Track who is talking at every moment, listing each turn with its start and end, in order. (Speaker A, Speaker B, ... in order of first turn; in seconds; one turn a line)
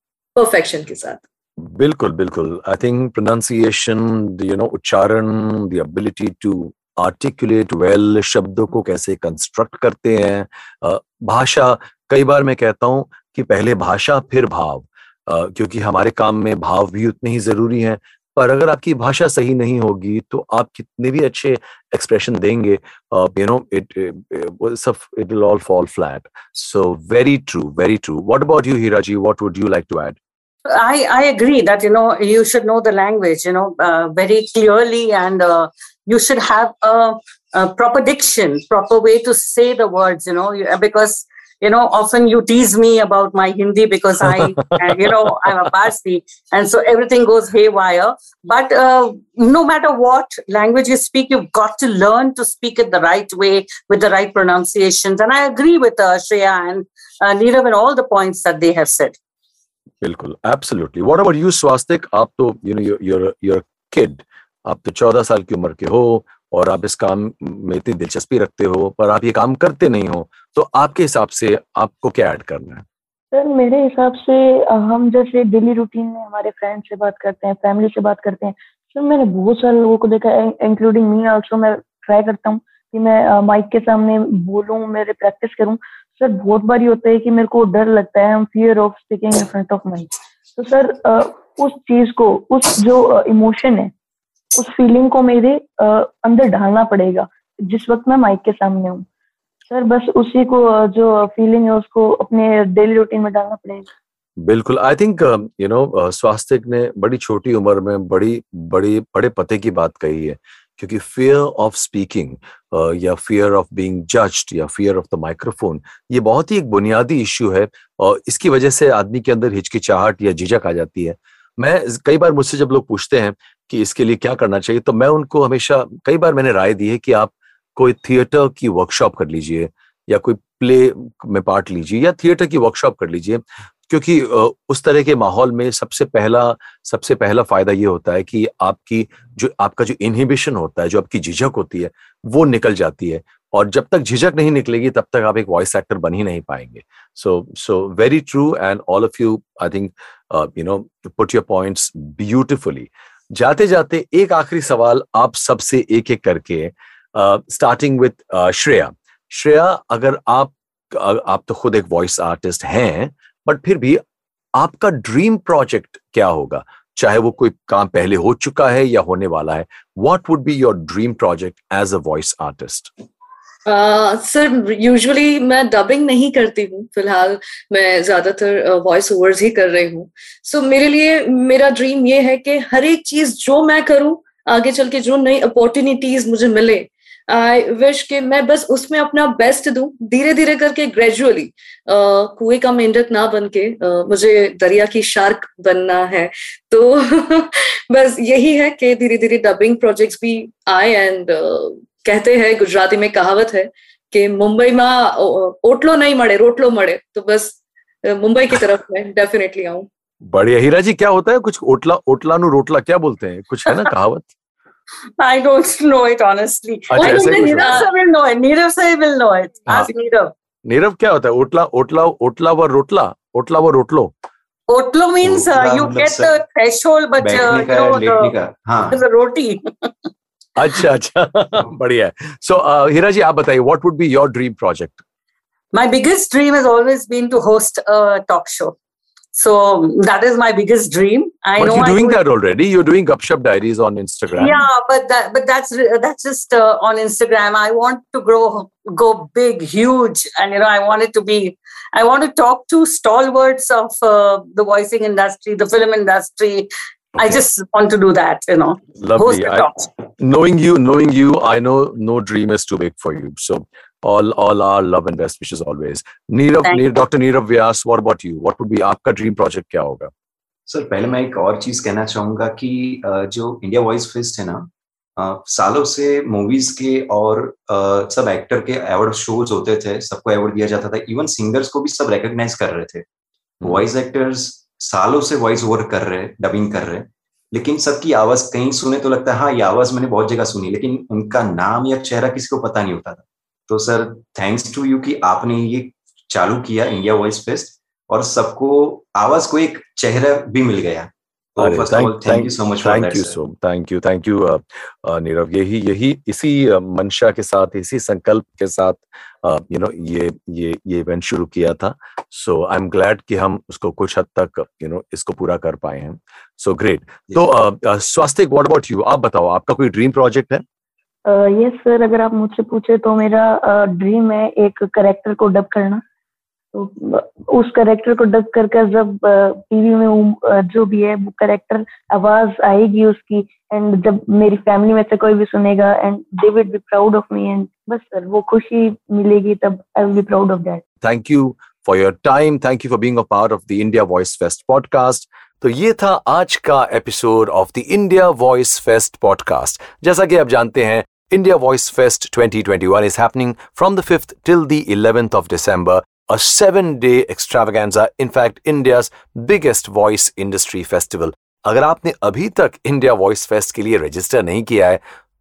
Speaker A: 0.4-1.2
Speaker B: 1.6-30.2
Speaker C: 30.7-59.1
Speaker B: 44.3-45.3
Speaker B: 60.0-72.8
Speaker D: 73.3-93.9
Speaker D: 94.6-99.1
Speaker D: 99.7-103.9
Speaker B: 104.4-164.0
Speaker B: 164.6-172.9
Speaker A: 173.7-209.9
Speaker B: 210.2-214.3
Speaker C: 215.2-220.3
Speaker B: 216.9-217.9
Speaker A: 216.9-217.9
Speaker B: 220.7-224.1
Speaker C: 224.7-228.3
Speaker E: 225.2-226.3
Speaker E: 227.2-229.0
Speaker C: 228.9-229.9
Speaker B: 230.6-235.0
Speaker C: 235.7-238.8
Speaker C: 239.3-242.2
Speaker B: 241.6-244.6
Speaker C: 244.3-259.9
Speaker B: 259.0-270.1
Speaker E: 270.7-283.1
Speaker E: 283.6-303.4
Speaker B: 301.6-320.6
Speaker D: 321.3-326.0
Speaker D: 326.7-340.8
Speaker B: 341.0-365.0